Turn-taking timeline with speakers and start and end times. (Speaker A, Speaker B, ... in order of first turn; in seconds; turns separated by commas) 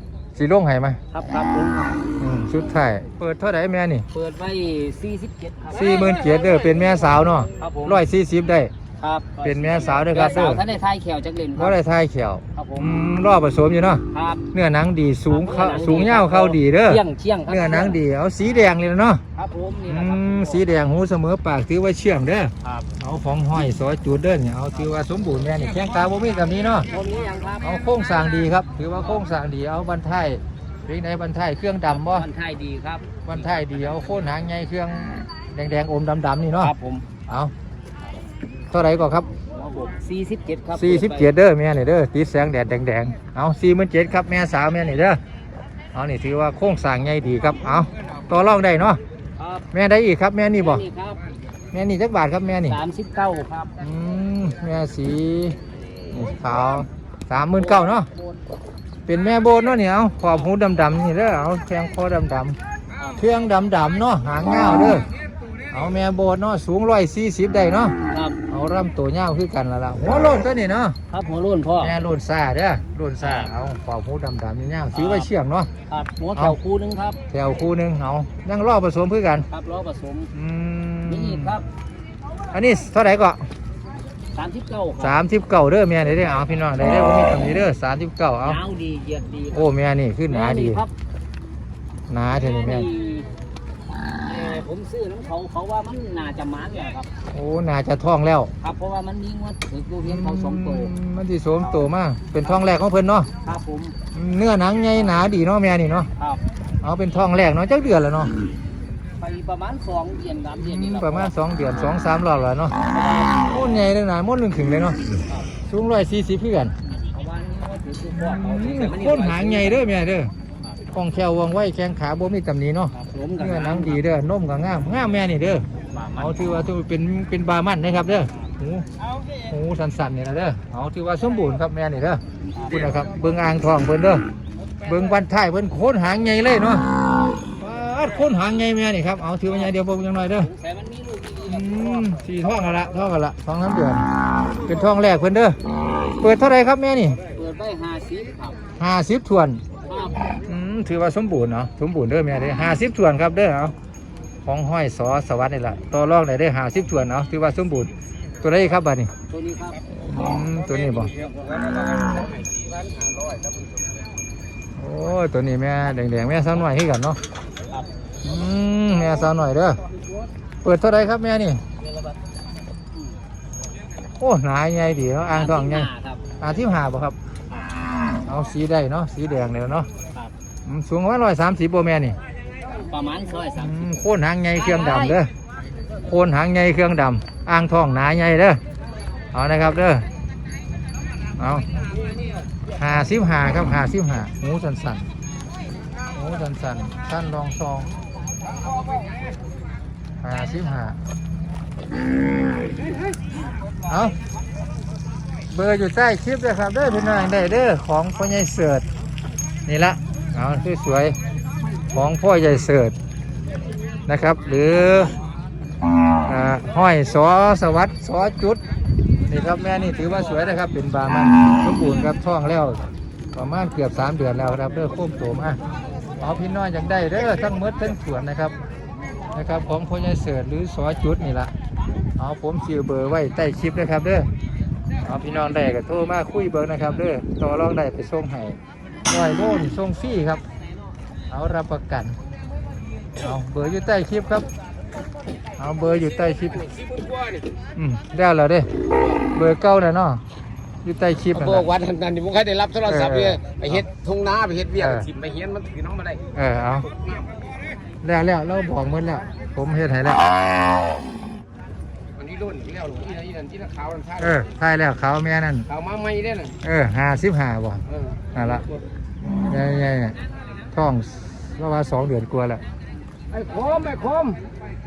Speaker A: 0.3-1.0, Speaker B: 1.1-2.0, Speaker A: 2.2-4.1, Speaker B: 4.1-6.2, Speaker A: 5.7-8.7, Speaker B: 7.5-8.0, Speaker B: 9.0-11.8, Speaker A: 9.4-10.6, Speaker A: 11.6-19.2, Speaker B: 12.6-12.9, Speaker B: 14.1-14.4, Speaker B: 15.3-18.0, Speaker B: 19.4-20.6, Speaker A: 19.9-26.9, Speaker B: 22.6-22.9, Speaker B: 26.9-27.8, Speaker A: 27.6-32.2, Speaker B: 31.9-34.0, Speaker A: 33.2-36.7, Speaker B: 36.6-37.0, Speaker A: 37.3-37.5, Speaker A: 38.7-39.3, Speaker B: 39.5-41.3, Speaker A: 40.7-45.2, Speaker A: 45.9-49.0, Speaker B: 49.4-49.6, Speaker A: 49.7-50.8, Speaker B: 50.6-51.2, Speaker A: 51.7-52.8, Speaker B: 52.7-53.7, Speaker A: 53.8-55.6, Speaker A: 56.1-58.1, Speaker B: 57.4-58.4, Speaker A: 59.1-62.6, Speaker A: 63.2-65.0, Speaker A: 65.7-67.9, Speaker B: 68.1-68.4, Speaker A: 68.5-71.0, Speaker B: 71.1-71.9, Speaker A: 71.8-75.7, Speaker B: 73.2-73.5, Speaker B: 74.9-75.3, Speaker B: 75.9-77.2, Speaker A: 77.3-79.5, Speaker B: 79.5-80.3, Speaker A: 80.3-81.5, Speaker B: 81.1-81.6, Speaker A: 82.5-83.4, Speaker B: 84.3-85.2, Speaker A: 85.0-88.6, Speaker B: 88.4-89.7, Speaker A: 89.5-90.8, Speaker B: 90.3-90.9, Speaker A: 92.1-92.9, Speaker B: 92.3-93.3, Speaker B: 94.2-97.1, Speaker A: 97.3-98.5, Speaker B: 98.6-100.9, Speaker A: 100.0-103.3, Speaker B: 103.4-103.9, Speaker A: 104.1-106.1, Speaker B: 104.9-105.3, Speaker B: 106.2-106.4, Speaker A: 106.8-108.3, Speaker B: 109.2-111.3, Speaker A: 110.6-112.8, Speaker B: 112.8-113.7, Speaker A: 113.4-115.0, Speaker A: 115.5-116.7, Speaker B: 116.9-119.9, Speaker A: 118.1-120.3, Speaker A: 120.9-128.9, Speaker B: 122.9-124.0, Speaker B: 125.8-126.3, Speaker A: 129.4-134.2, Speaker B: 132.5-133.0, Speaker A: 134.8-136.8, Speaker A: 137.6-140.5, Speaker B: 140.3-142.2, Speaker A: 141.5-144.1, Speaker A: 144.6-145.6, Speaker A: 146.2-147.2, Speaker B: 147.3-148.6, Speaker A: 148.8-149.6, Speaker B: 149.8-150.4, Speaker A: 150.4-153.7, Speaker A: 154.4-157.9, Speaker A: 158.4-159.1, Speaker B: 159.3-159.8, Speaker A: 159.9-161.1, Speaker C: 160.1-164.2, Speaker A: 164.8-167.2, Speaker A: 168.2-169.8, Speaker B: 169.9-170.2, Speaker A: 170.6-171.6, Speaker B: 171.8-172.1, Speaker A: 174.2-175.9, Speaker B: 175.3-176.3, Speaker A: 176.4-177.2, Speaker B: 177.5-177.8, Speaker A: 178.2-179.9, Speaker A: 180.6-182.2, Speaker B: 182.6-183.8, Speaker A: 183.6-185.3, Speaker B: 184.5-185.2, Speaker A: 186.0-188.6, Speaker A: 189.3-190.1, Speaker A: 191.4-191.7, Speaker A: 192.8-195.1, Speaker A: 196.1-197.9, Speaker A: 200.2-201.0, Speaker A: 203.8-204.2, Speaker A: 205.5-208.9, Speaker A: 209.7-211.2, Speaker A: 211.9-212.9, Speaker A: 214.1-215.1, Speaker A: 216.2-218.6, Speaker A: 219.3-222.8, Speaker A: 223.3-225.6, Speaker A: 226.2-228.6, Speaker A: 229.3-231.5, Speaker A: 232.2-234.3, Speaker A: 235.0-240.4, Speaker A: 241.3-242.2, Speaker A: 243.2-244.5, Speaker A: 245.6-246.6, Speaker C: 246.4-247.4, Speaker A: 247.8-248.7, Speaker A: 249.3-250.2, Speaker A: 250.8-251.7, Speaker C: 251.3-256.2, Speaker A: 252.8-253.8, Speaker A: 254.8-255.1, Speaker A: 256.3-256.9, Speaker C: 256.9-257.5, Speaker A: 258.0-260.3, Speaker C: 262.1-264.4, Speaker A: 264.2-265.7, Speaker C: 265.7-266.6, Speaker A: 266.6-267.8, Speaker C: 267.9-268.2, Speaker A: 268.3-268.6, Speaker A: 269.2-270.2, Speaker A: 270.7-272.6, Speaker C: 273.3-274.4